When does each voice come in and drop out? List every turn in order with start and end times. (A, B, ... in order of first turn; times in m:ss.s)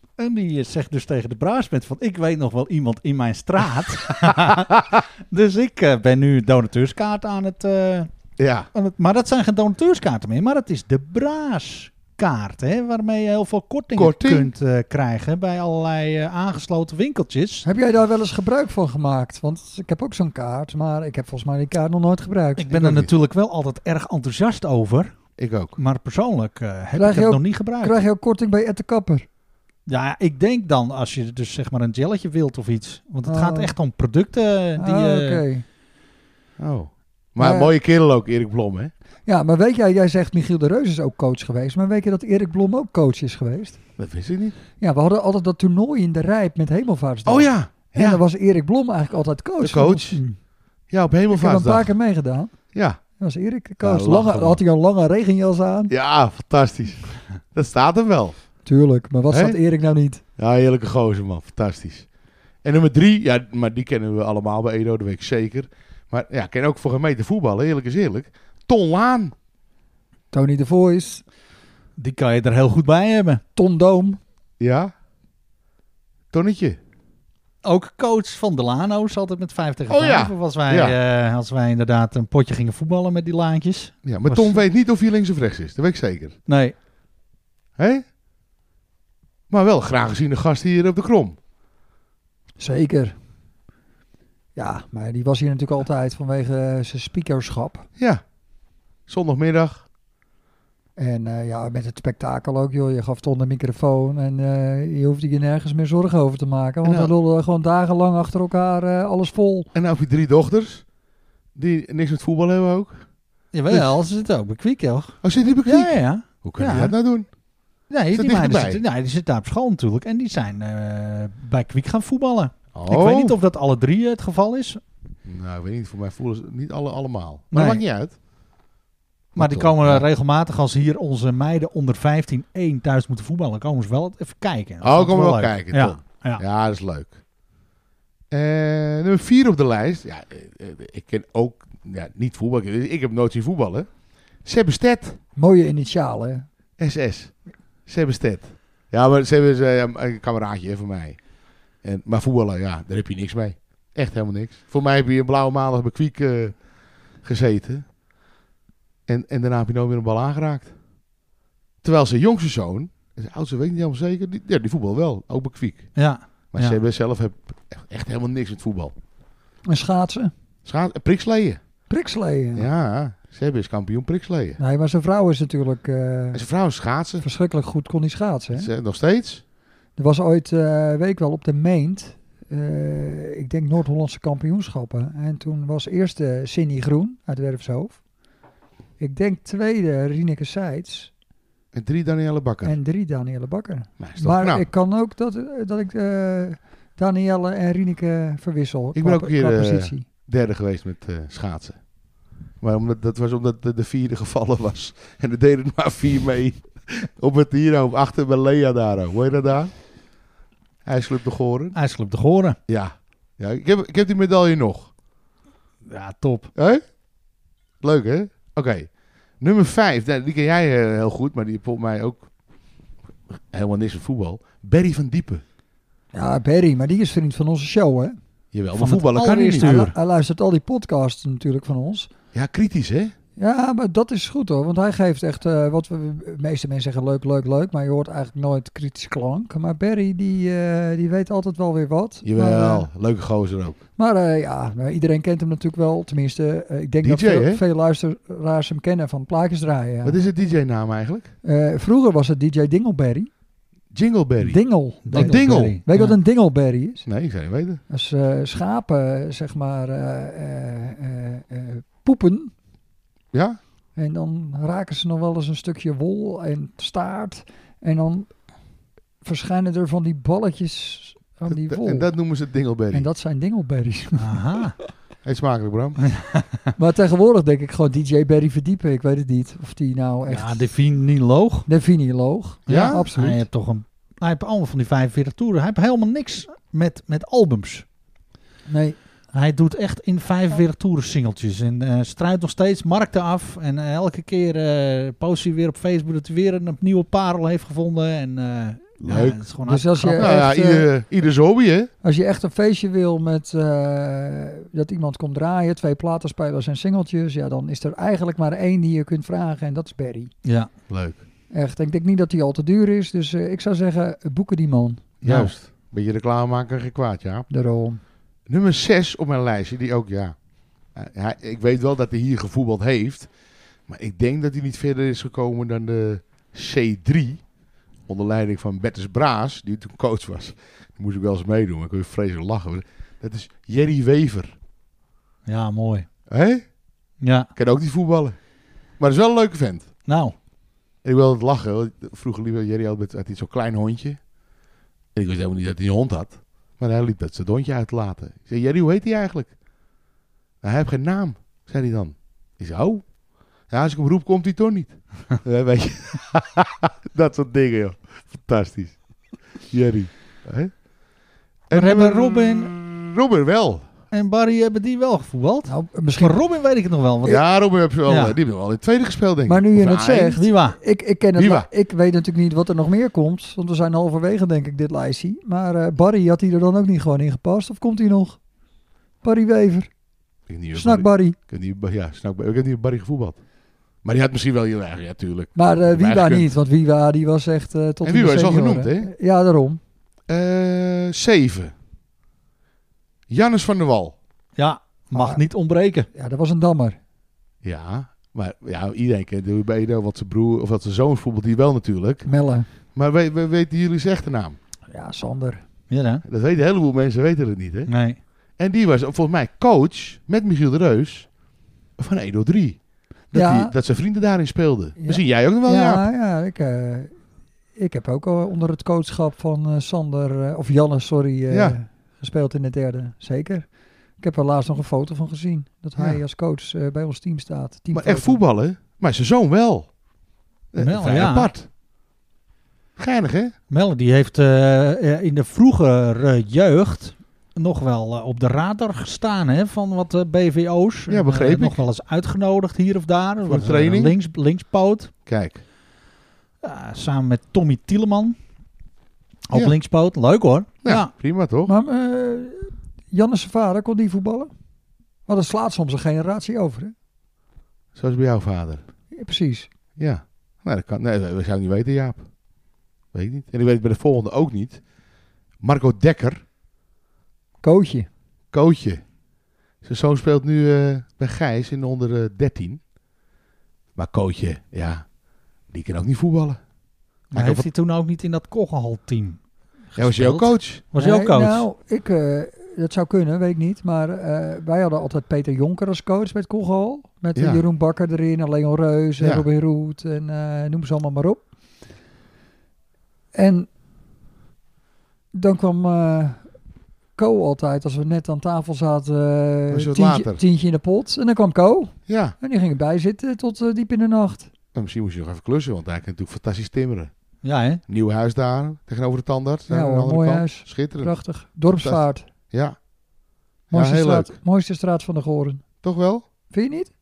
0:00.2-0:08.1 A
0:04.3-0:04.8 B
0:08.4-0:08.7 B
0:08.7-0:17.6 A
0:13.9-0:14.5 B
0:17.6-0:22.7 C
0:22.6-0:25.1 A
0:22.7-0:23.1 B
0:25.4-0:25.8 B
0:25.8-0:27.9 A
0:27.0-0:29.2 C
0:29.8-0:35.4 A
0:33.2-0:33.7 C
0:34.8-0:35.6 C
0:36.6-0:38.9 B
0:37.4-0:37.7 C
0:39.2-0:43.8 C
0:44.0-0:44.6 B
0:44.8-0:50.4 C
0:47.2-0:48.2 B
0:49.6-0:50.2 B
0:50.9-0:51.9 B
0:51.3-0:52.5 C
0:52.7-0:53.0 B
0:53.2-0:55.9 C
0:53.8-0:54.6 B
0:55.9-0:58.4 B
0:58.6-1:00.2 C
0:59.3-0:59.6 B
1:00.4-1:02.1 B
1:02.6-1:09.3 B
1:10.3-1:11.2 C
1:12.0-1:13.4 A
1:13.6-1:14.2 C
1:14.6-1:14.9 B
1:16.3-1:16.8 B
1:17.6-1:24.6 A
1:19.9-1:21.0 B
1:24.0-1:26.4 B
1:26.5-1:26.7 A
1:27.8-1:28.0 B
1:29.5-1:31.4 B
1:32.6-1:33.2 C
1:34.6-1:37.9 C
1:38.0-1:38.2 B
1:39.1-1:39.8 B
1:41.0-1:49.7 C
1:46.8-1:47.1 B
1:49.7-1:50.8 B
1:51.5-1:53.0 B
1:53.5-1:56.9 A
1:53.7-1:54.0 B
1:55.2-1:57.3 B
1:57.9-2:04.8 A
1:58.1-1:58.8 B
2:02.7-2:03.4 B
2:05.2-2:08.1 B
2:07.5-2:07.8 A
2:09.3-2:16.4 A
2:09.4-2:10.0 B
2:14.8-2:17.2 B
2:18.3-2:25.2 B
2:25.4-2:26.5 C
2:26.8-2:27.3 B
2:27.8-2:31.2 B
2:31.8-2:37.8 B
2:39.1-2:40.7 B
2:41.8-2:45.9 B
2:46.0-2:46.8 A
2:46.5-2:48.9 B
2:49.6-2:50.3 C
2:50.6-2:51.6 B
2:51.9-2:52.7 C
2:52.6-2:54.6 B
2:54.6-2:56.4 C
2:56.3-2:57.2 B
2:57.2-2:58.7 C
2:58.5-2:59.4 B
3:00.0-3:08.0 C
3:09.0-3:11.1 C
3:11.7-3:12.8 B
3:12.6-3:20.0 C
3:14.0-3:14.6 B
3:18.9-3:21.8 B
3:22.6-3:29.7 B
3:30.8-3:31.8 B
3:31.7-3:32.6 A
3:32.7-3:34.9 B
3:35.8-3:36.5 A
3:36.5-3:36.8 B
3:37.8-3:42.3 B
3:43.3-3:45.4 B
3:46.1-3:48.2 C
3:48.5-3:49.9 B
3:48.7-3:49.9 A
3:49.6-3:52.1 C
3:52.3-3:53.1 B
3:53.4-4:02.9 C
4:02.2-4:03.8 B
4:04.0-4:10.2 C
4:07.0-4:07.6 B
4:10.0-4:11.3 B
4:11.4-4:13.3 C
4:13.9-4:15.8 B
4:14.4-4:17.0 C
4:15.0-4:16.2 A
4:17.0-4:17.8 B
4:17.9-4:22.5 C
4:23.3-4:23.6 B
4:24.0-4:28.3 C
4:29.2-4:32.1 C
4:31.5-4:33.1 B
4:32.9-4:34.6 C
4:34.2-4:34.8 A
4:35.2-4:36.0 B
4:36.0-4:36.5 A
4:36.8-4:40.7 C
4:40.3-4:41.7 A
4:41.7-4:43.4 C
4:42.7-4:43.1 B
4:42.7-4:47.8 A
4:48.7-4:49.0 C
4:49.3-5:00.3 A
4:59.0-4:59.4 B
4:59.6-5:00.9 C
5:00.1-5:01.9 B
5:02.0-5:10.3 C
5:10.4-5:10.7 A
5:10.9-5:11.2 B
5:11.5-5:15.0 C
5:15.2-5:17.5 B
5:15.2-5:15.5 A
5:17.5-5:18.0 C
5:18.5-5:20.4 B
5:20.9-5:23.3 B
5:23.9-5:27.4 B
5:28.1-5:34.5 B
5:35.5-5:36.1 A
5:36.3-5:36.7 B
5:37.2-5:37.5 A
5:37.6-5:38.4 B
5:39.0-5:39.9 B
5:40.0-5:40.3 A
5:41.0-5:44.2 B
5:45.1-5:49.5 B
5:50.6-5:53.1 B
5:53.7-6:00.8 B
6:01.7-6:03.9 B
6:01.7-6:02.7 A
6:04.1-6:08.4 A
6:05.6-6:06.4 C
6:07.2-6:10.4 B
6:09.4-6:18.4 C
6:10.3-6:10.8 A
6:11.4-6:11.7 B
6:19.2-6:19.9 C
6:20.5-6:23.4 B
6:20.7-6:21.4 C
6:24.0-6:26.5 B
6:25.5-6:29.8 C
6:28.0-6:29.1 B
6:30.3-6:31.7 B
6:33.3-6:34.2 B
6:34.6-6:36.1 A
6:35.1-6:35.4 C
6:36.1-6:37.0 C
6:37.6-6:42.3 B
6:42.2-6:42.7 C
6:42.9-6:44.6 B
6:44.9-6:45.6 C
6:45.9-6:46.2 A
6:46.2-6:47.9 B
6:47.9-6:48.2 A
6:48.6-6:51.3 B
6:52.0-6:56.0 B
6:53.3-6:53.7 C
6:55.0-6:57.2 C
6:57.7-7:03.7 C
7:01.5-7:01.8 B
7:04.2-7:08.4 C
7:07.9-7:09.9 B
7:10.7-7:11.7 B
7:10.8-7:11.5 A
7:13.0-7:13.5 B
7:13.7-7:25.1 A
7:21.1-7:21.8 B
7:23.4-7:24.2 B
7:25.2-7:25.6 B
7:26.6-7:28.3 A
7:29.5-7:31.1 A
7:30.8-7:31.7 B
7:31.6-7:34.5 C
7:35.3-7:36.9 C
7:37.9-7:38.8 B
7:39.1-7:39.7 C
7:40.0-7:42.3 B
7:43.1-7:44.8 B
7:45.6-7:46.4 B
7:47.6-7:48.1 C
7:48.5-7:49.0 B
7:49.8-7:52.8 B
7:54.0-7:55.1 B
7:55.7-7:56.6 B
7:57.3-7:57.7 B
7:57.3-7:59.4 A
7:59.9-8:01.6 A
8:00.0-8:00.8 B
8:01.0-8:11.4 C
8:07.3-8:07.6 B
8:09.2-8:09.4 B
8:13.3-8:13.7 C
8:15.3-8:16.4 C
8:17.2-8:24.5 C
8:19.7-8:20.4 B
8:22.1-8:22.4 B
8:24.7-8:27.1 B
8:27.4-8:27.8 A
8:27.9-8:31.2 B
8:29.7-8:32.2 C
8:31.7-8:32.8 B
8:33.7-8:34.4 B
8:33.7-8:35.6 C
8:35.8-8:36.2 B
8:36.5-8:36.9 C